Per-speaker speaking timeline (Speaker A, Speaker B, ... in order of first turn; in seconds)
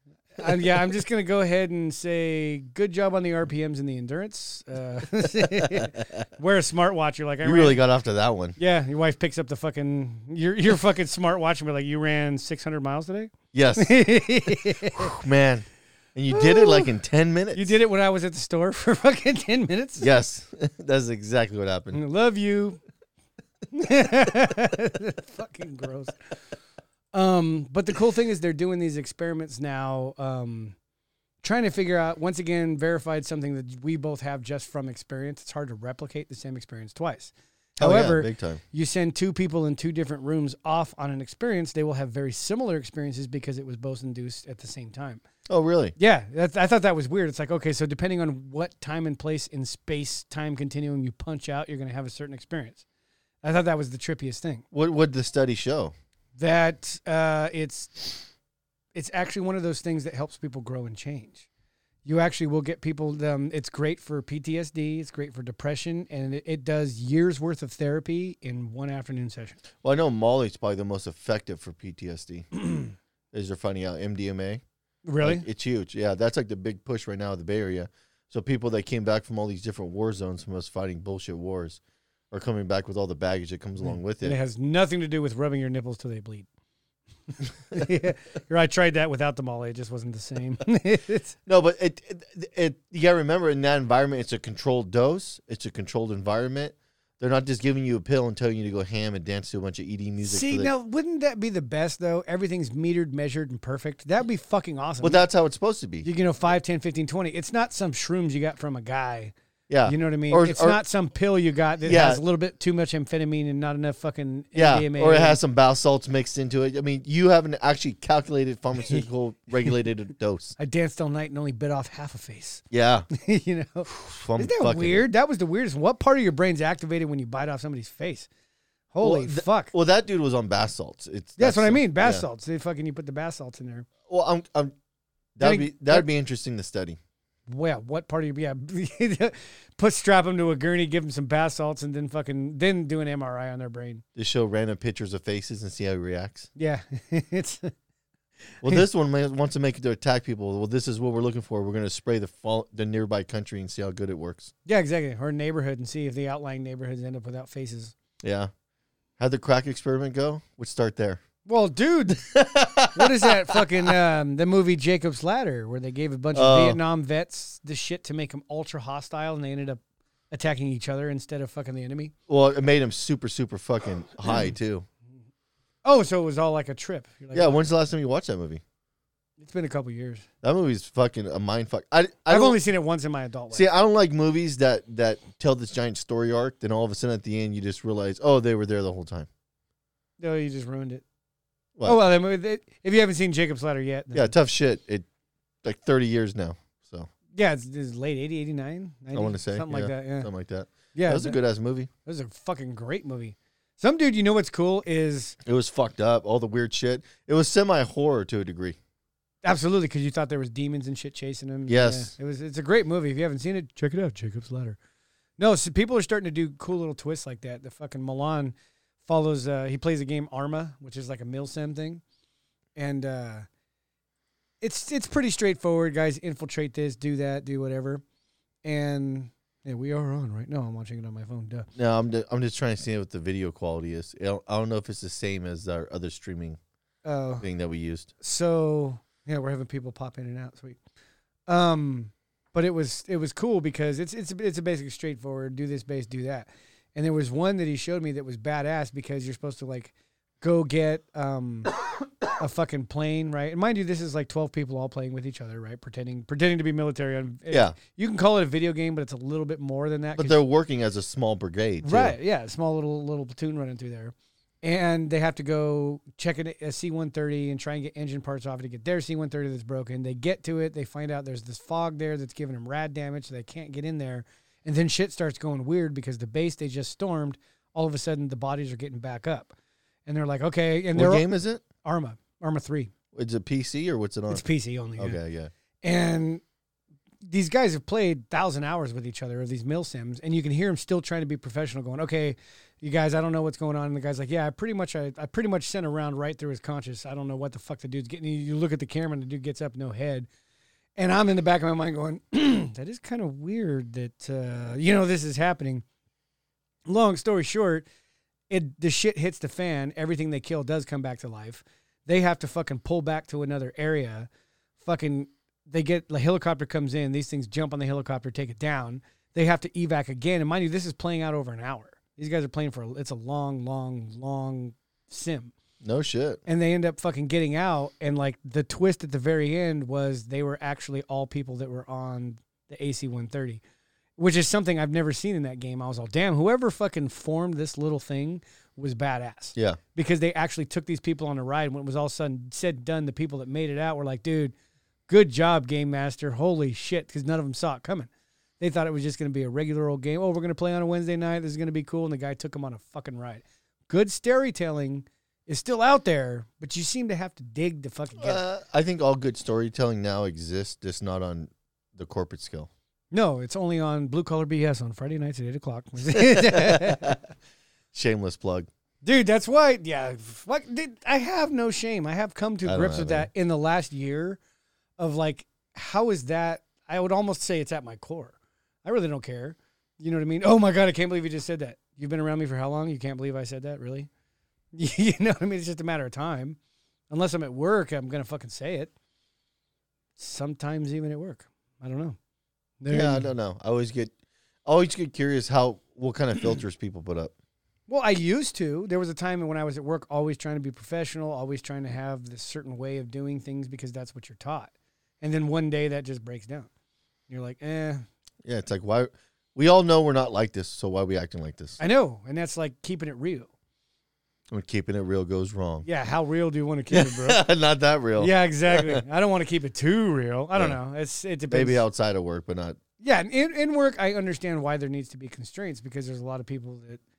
Speaker A: 0.4-7.8, 8.6-15.2, 16.3-16.9, 17.5-20.1, 21.9-22.8, 23.7-26.1, 27.1-30.7, 31.4-45.2, 46.0-52.8, 53.4-54.6, 56.4-58.2, 58.9-61.5, 62.0-69.6, 75.0-75.5, 83.8-86.5, 87.7-91.3, 100.2-105.2, 106.0-109.3, 109.8-115.4, 120.6-128.3, 128.9-129.7, 131.4-133.9, 135.4-136.1, 137.5-144.0, 146.6-147.7, 154.7-157.9, 161.4-162.3, 162.9-172.1, 175.8-177.7, 179.4-180.2, 182.3-183.7, 190.2-191.0, 191.8-194.3, 197.3-200.3, 200.9-201.4, 202.0-205.4, 209.4-214.8, 215.4-222.0, 222.8-223.4, 224.6-228.0, 228.6-231.7, 237.0-237.4, 238.2-240.8, 241.5-251.8, 252.4-260.4, 261.8-279.5, 280.1-281.2, 281.8-282.9, 284.3-285.2, 285.8-286.4, 287.2-300.3, 301.0-305.8, 306.9-307.9, 308.5-314.3, 314.8-325.5, 326.4-333.6, 334.2-344.5, 345.1-348.1, 348.6-358.4, 363.1-367.1, 369.0-374.4, 375.0-384.1, 384.7-386.6, 387.1-388.9, 390.2-392.2, 392.8-393.3, 397.9-406.7, 407.3-408.0, 411.8-413.5, 415.8-417.4, 418.2-421.8, 423.0-427.0
Speaker B: 5.7-6.0, 7.4-8.6, 13.5-13.9, 14.9-17.8, 20.0-22.0, 37.8-38.6, 45.5-45.9, 54.7-55.9, 69.8-72.7, 73.3-74.6, 75.2-81.8, 82.3-84.4, 91.5-100.7, 105.0-106.1, 109.7-110.8, 111.8-112.2, 114.5-120.5, 122.7-123.1, 123.9-125.0, 129.0-132.2, 134.1-134.7, 135.3-137.0, 144.2-146.5, 148.6-154.5, 158.2-158.5, 159.2-161.2, 162.1-163.6, 166.3-166.8, 172.3-174.8, 177.3-178.6, 180.4-182.6, 183.5-189.3, 191.8-192.0, 194.1-195.1, 195.6-197.1, 199.1-201.9, 205.4-208.8, 211.7-212.1, 231.8-236.6, 237.4-238.1, 257.5-257.8, 260.2-262.1, 280.9-281.6, 283.1-284.4, 285.0-285.5, 325.8-326.4, 358.2-362.7, 366.1-367.2, 367.9-368.7, 372.6-373.3, 392.9-394.1, 394.6-397.3, 408.4-411.8, 414.5-415.9, 416.9-419.0, 421.5-422.8